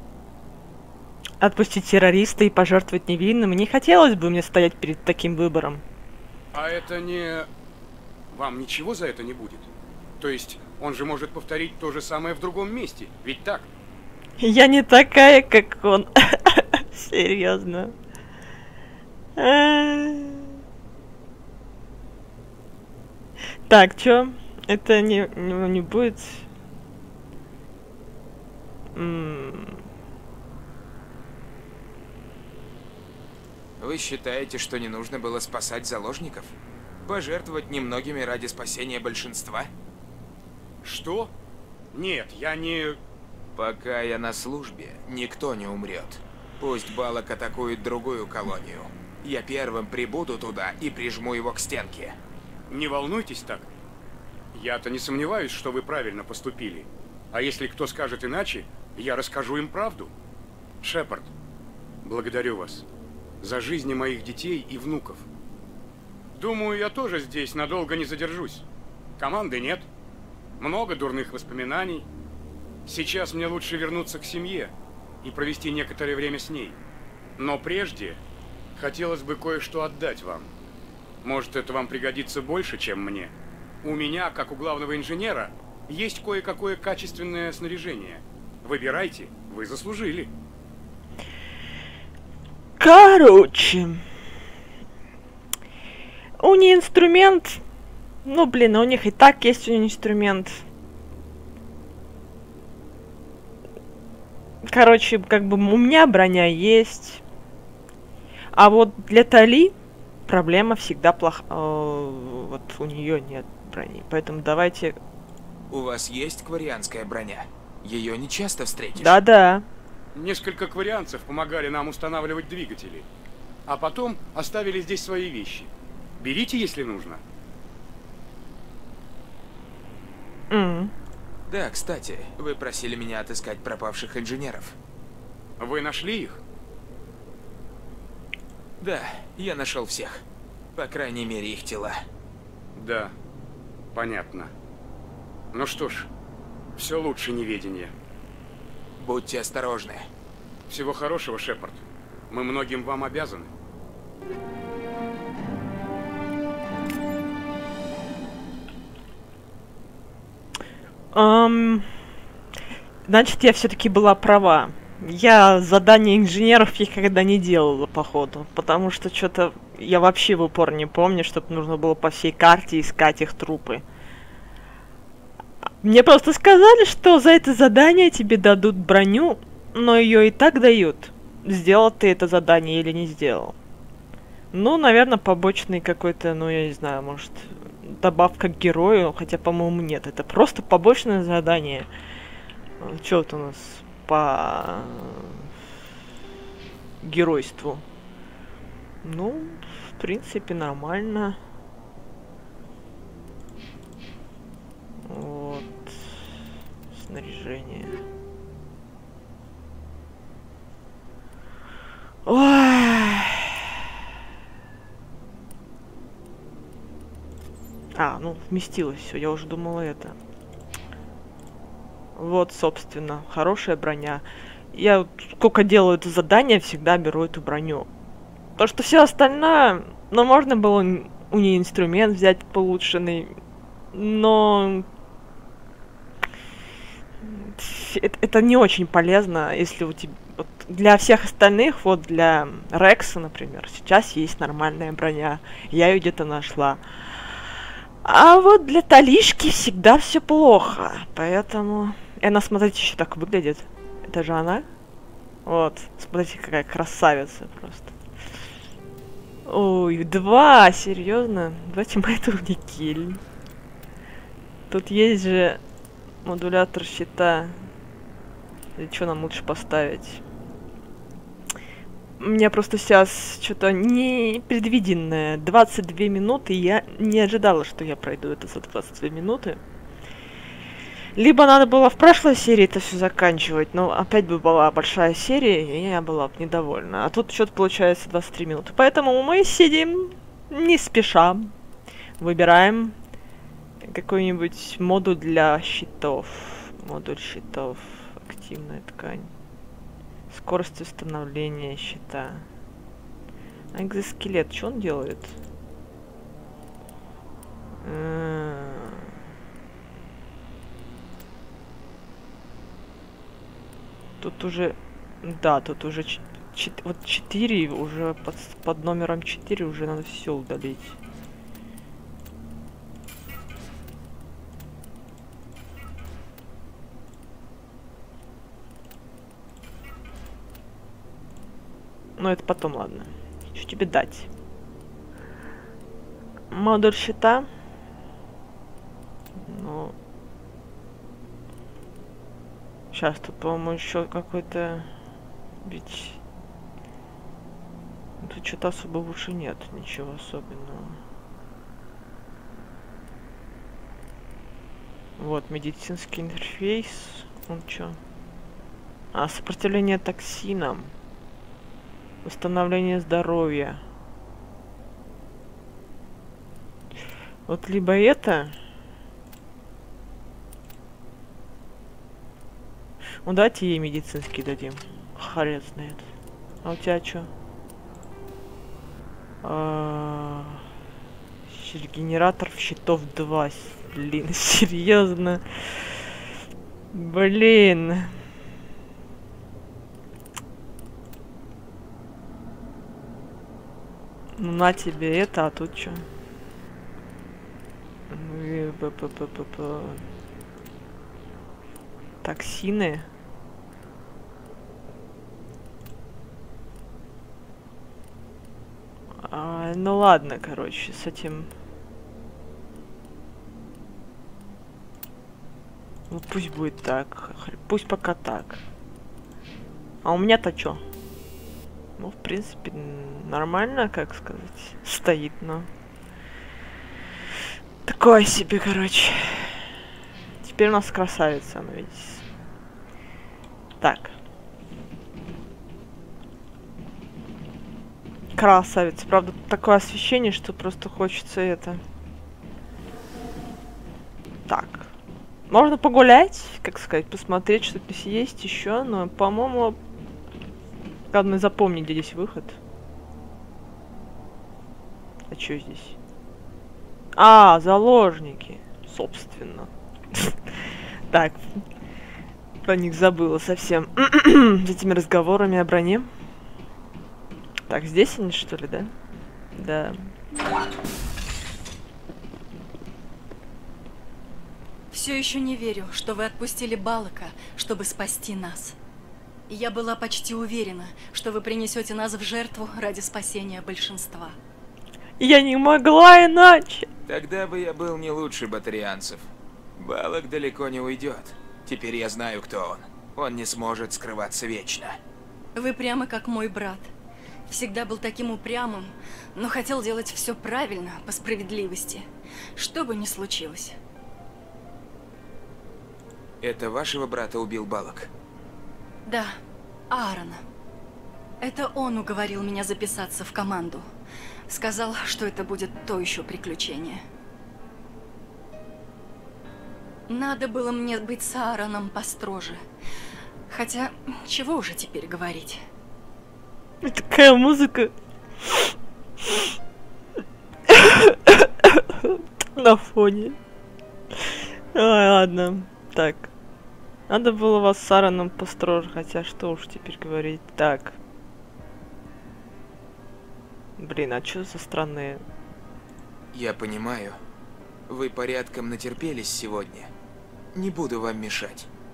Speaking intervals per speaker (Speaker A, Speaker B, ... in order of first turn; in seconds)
Speaker A: 1.4-5.8, 14.4-17.9, 19.4-20.5, 23.7-26.5, 28.9-29.8, 92.8-94.0, 96.4-97.6, 98.2-100.6, 104.6-107.2, 108.5-109.7, 110.3-115.0, 119.0-119.7, 130.5-130.9, 161.1-161.9, 163.1-173.8, 175.8-183.6, 184.5-191.9, 192.8-195.5, 197.0-197.8, 199.0-201.4, 205.1-206.2, 206.9-208.0, 212.3-213.5, 217.9-220.2, 222.2-227.9, 228.6-233.3, 233.9-234.9, 237.2-246.8, 248.0-254.7, 255.5-257.9, 259.5-263.2, 264.7-265.6, 266.2-267.6, 268.8-270.2, 272.2-279.6, 281.2-291.5, 292.2-292.9, 293.8-299.3, 300.3-302.5, 303.7-305.4, 307.8-309.1, 314.2-321.0, 332.2-334.3, 336.5-337.5, 339.4-339.9, 342.9-344.9, 345.6-346.2, 348.2-351.0, 355.2-358.0, 359.1-360.9, 362.2-363.8, 367.5-368.6, 373.2-376.1, 376.6-377.3, 379.4-380.6, 381.5-386.0, 386.9-388.1, 394.4-396.0, 398.1-400.0, 402.2-403.1, 409.2-411.5, 416.1-418.6, 420.0-420.8, 422.0-425.7, 427.9-429.6, 430.4-432.2, 433.8-434.1, 438.4-441.8, 444.5-444.9, 445.5-449.8, 451.1-452.6, 455.3-456.0, 457.2-460.4, 461.1-461.5, 462.6-466.1, 467.7-468.9, 469.6-470.1, 485.2-486.9, 526.8-527.9, 528.5-528.7, 530.7-533.4, 534.7-536.3, 537.1-541.0, 543.8-545.2
Speaker B: 6.5-7.5, 8.3-9.7, 10.2-13.7, 40.8-41.3, 41.9-43.0, 52.7-53.7, 54.5-60.1, 60.8-61.3, 62.0-62.9, 63.4-65.3, 66.3-68.6, 69.2-69.9, 70.6-72.0, 72.9-74.7, 75.2-76.8, 77.4-78.2, 78.8-80.5, 81.2-90.3, 120.2-123.1, 123.7-127.2, 135.6-136.4, 142.8-143.1, 143.9-144.5, 145.5-146.1, 146.8-147.9, 150.7-153.5
Speaker C: 33.8-39.7, 43.5-52.2, 115.7-119.2, 131.5-134.8, 138.8-140.2, 140.8-142.0, 149.0-150.1, 487.1-495.0, 506.4-508.1, 546.3-547.2, 547.9-549.9, 550.5-551.7
Speaker D: 474.9-478.8, 479.5-484.4, 495.6-496.9, 497.5-502.1, 502.6-503.8, 509.1-509.3, 509.9-510.4, 511.4-513.9, 514.5-517.0, 520.1-522.6, 523.5-525.6